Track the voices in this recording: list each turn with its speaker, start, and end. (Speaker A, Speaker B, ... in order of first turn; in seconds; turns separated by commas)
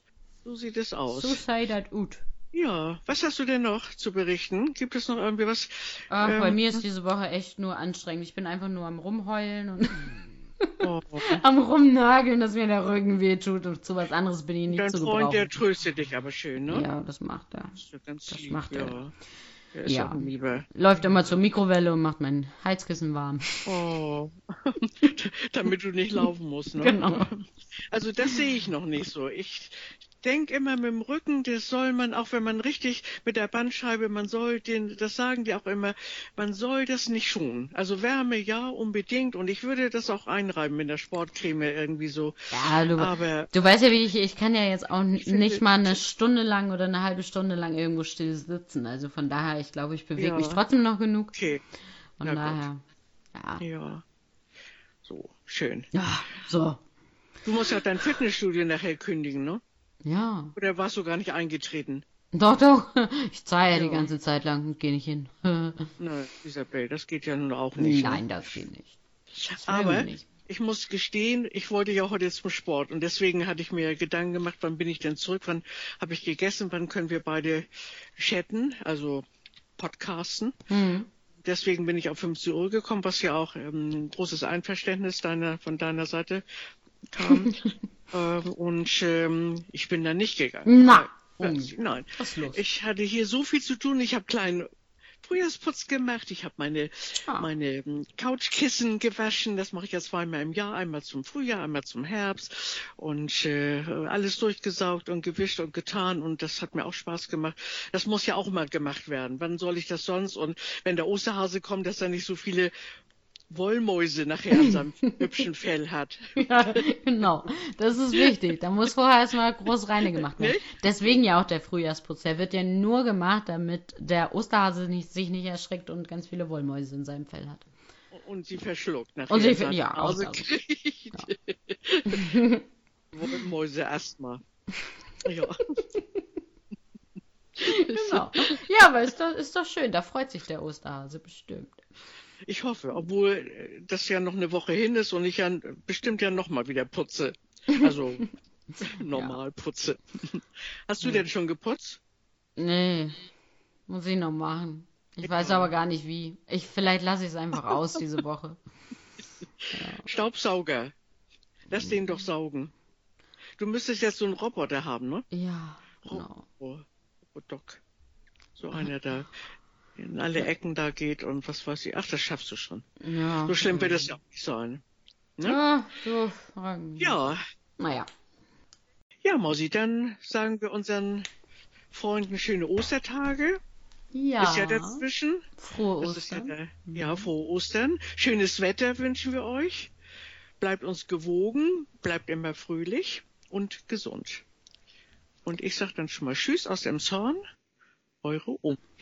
Speaker A: 0.4-1.4, Speaker B: 1.1-2.2, Speaker A: 2.5-6.8, Speaker B: 6.1-15.6, Speaker A: 10.8-11.4, Speaker A: 14.7-16.9, Speaker B: 16.7-18.9, Speaker A: 17.8-19.1, Speaker A: 19.7-21.2, Speaker B: 19.9-23.6, Speaker A: 23.6-43.5, Speaker B: 26.8-27.3, Speaker B: 42.5-51.3, Speaker A: 45.1-46.0, Speaker A: 50.2-50.6, Speaker A: 51.3-51.6, Speaker B: 52.2-52.8, Speaker A: 52.2-52.6, Speaker B: 53.3-53.6, Speaker A: 53.6-54.0, Speaker A: 55.0-55.9, Speaker B: 55.9-56.8, Speaker A: 57.4-59.6, Speaker B: 60.0-60.5, Speaker A: 60.5-62.0, Speaker B: 62.3-65.9, Speaker A: 63.7-64.1, Speaker A: 66.0-68.2, Speaker B: 67.8-69.0, Speaker A: 69.3-79.2, Speaker B: 69.6-70.2, Speaker A: 79.8-80.5, Speaker B: 80.7-81.1, Speaker A: 81.4-86.4, Speaker A: 87.1-87.6, Speaker B: 87.3-87.7, Speaker A: 88.1-94.7, Speaker B: 90.6-92.6, Speaker A: 95.2-112.7, Speaker A: 113.5-116.8, Speaker B: 114.5-115.4, Speaker B: 116.4-127.7, Speaker A: 120.1-120.7, Speaker A: 128.1-132.4, Speaker B: 129.3-130.5, Speaker B: 132.1-132.6, Speaker A: 133.1-134.4, Speaker A: 135.2-135.6, Speaker B: 135.8-136.2, Speaker A: 137.6-138.6, Speaker B: 137.6-141.8, Speaker A: 142.4-148.2, Speaker B: 147.7-148.3, Speaker A: 148.8-152.0, Speaker B: 149.1-149.4, Speaker B: 152.6-153.2, Speaker B: 153.9-158.6, Speaker A: 155.2-155.7, Speaker A: 159.6-160.9, Speaker B: 159.7-160.1, Speaker A: 161.7-162.7, Speaker A: 163.6-165.2, Speaker B: 165.3-166.4, Speaker A: 166.0-167.8, Speaker A: 168.6-169.3, Speaker A: 170.0-172.8, Speaker B: 173.0-174.2, Speaker A: 173.4-174.8, Speaker B: 175.4-178.1, Speaker A: 177.0-177.4, Speaker A: 179.2-181.3, Speaker A: 181.9-183.6, Speaker B: 184.1-185.0, Speaker A: 184.4-185.4, Speaker B: 185.6-187.3, Speaker A: 186.0-189.9, Speaker A: 190.6-194.4, Speaker A: 195.4-197.4, Speaker A: 198.2-198.8